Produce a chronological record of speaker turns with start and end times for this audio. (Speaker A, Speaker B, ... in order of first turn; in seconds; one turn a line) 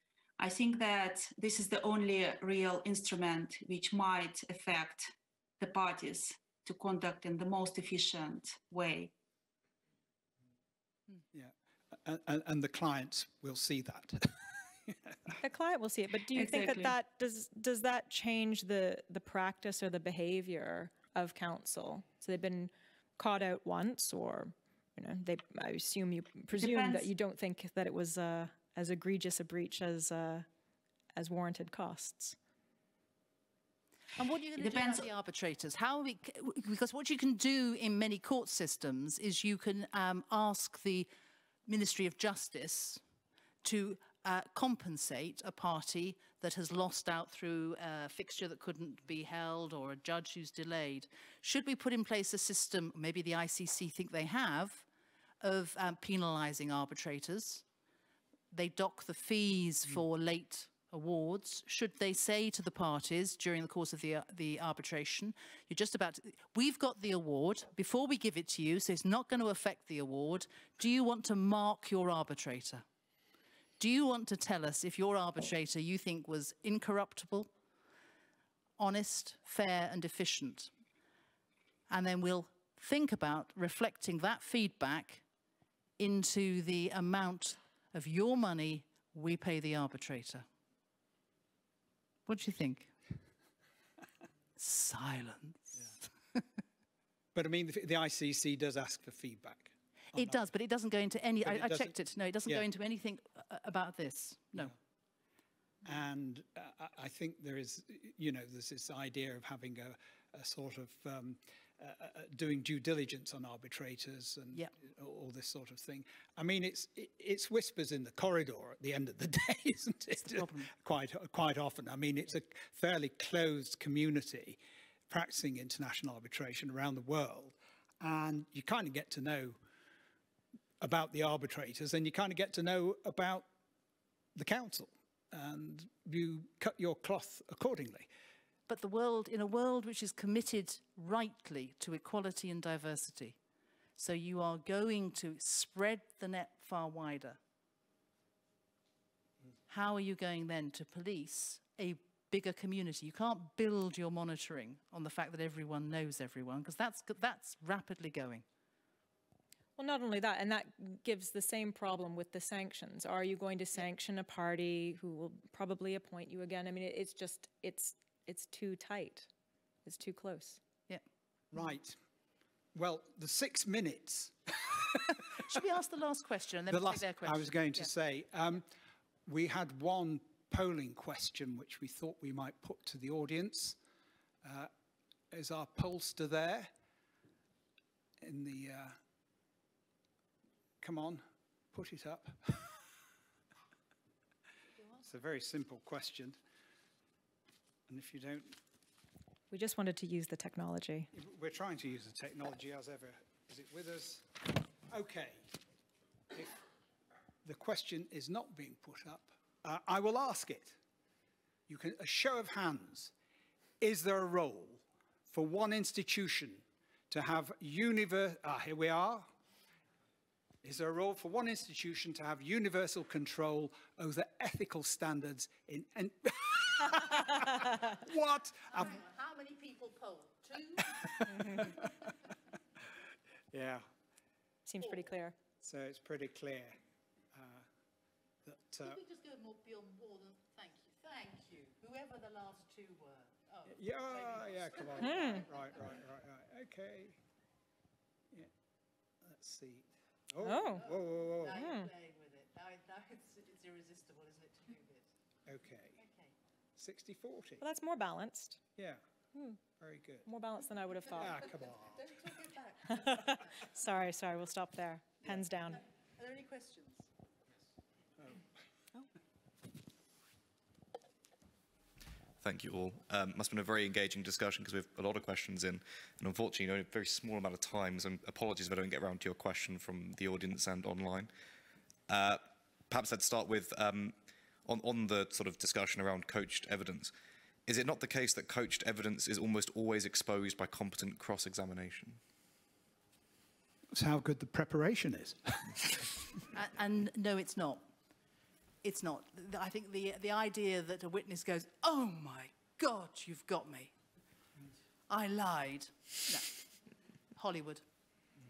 Speaker A: 0.4-9.1
Speaker B: 11.3-15.3
Speaker C: 15.4-30.5
Speaker A: 16.4-16.9
Speaker A: 26.6-27.1
Speaker C: 31.2-32.4
Speaker D: 34.2-41.1
Speaker A: 34.6-35.1
Speaker D: 41.7-43.0
Speaker D: 43.6-54.9
Speaker D: 55.4-57.6
Speaker D: 58.5-72.8
Speaker D: 73.8-77.5
Speaker D: 78.8-80.7
Speaker D: 81.9-85.2
Speaker D: 86.0-90.5
Speaker D: 92.3-92.9
Speaker D: 94.6-96.5
Speaker B: 97.3-100.4
Speaker D: 100.1-104.8
Speaker B: 101.4-101.9
Speaker B: 105.8-124.6
Speaker D: 120.2-120.7
Speaker B: 125.1-129.6
Speaker B: 130.8-133.5
Speaker B: 134.3-138.1
Speaker D: 138.7-143.4
Speaker D: 144.0-147.4
Speaker D: 149.7-158.4
Speaker C: 159.8-169.3
Speaker C: 169.8-170.6
Speaker B: 171.5-172.0
Speaker B: 172.8-175.5
Speaker D: 175.3-177.6
Speaker B: 176.7-178.7
Speaker B: 179.3-183.8
Speaker B: 184.4-184.7
Speaker B: 185.3-186.7
Speaker B: 188.2-189.0
Speaker B: 190.8-192.8
Speaker B: 195.0-196.4
Speaker B: 197.9-198.6
Speaker C: 199.5-201.1
Speaker B: 201.1-205.4
Speaker B: 206.3-206.6
Speaker B: 207.4-210.8
Speaker B: 211.7-213.1
Speaker B: 213.8-219.3
Speaker B: 220.6-229.0
Speaker D: 228.7-231.9
Speaker B: 230.8-232.1
Speaker C: 231.3-231.7
Speaker B: 233.5-233.9
Speaker C: 234.7-235.3
Speaker B: 235.6-236.8
Speaker B: 237.3-237.7
Speaker B: 238.4-239.0
Speaker D: 238.8-245.7
Speaker B: 243.7-247.2
Speaker C: 245.0-245.4
Speaker B: 249.2-251.6
Speaker C: 250.4-250.9
Speaker D: 250.8-255.1
Speaker C: 251.4-251.9
Speaker B: 255.5-256.0
Speaker D: 256.0-256.3
Speaker B: 256.8-257.6
Speaker C: 257.6-258.6
Speaker C: 259.3-259.6
Speaker B: 259.8-260.3
Speaker C: 260.3-261.5
Speaker B: 261.1-262.3
Speaker D: 261.9-263.4
Speaker C: 262.9-265.8
Speaker D: 266.2-267.1
Speaker E: 272.4-281.3
Speaker E: 282.1-284.1
Speaker E: 284.7-287.1
Speaker E: 287.7-292.2
Speaker B: 293.9-296.4
Speaker D: 296.5-297.9
Speaker D: 298.8-303.9
Speaker D: 305.1-306.6
Speaker D: 307.4-307.8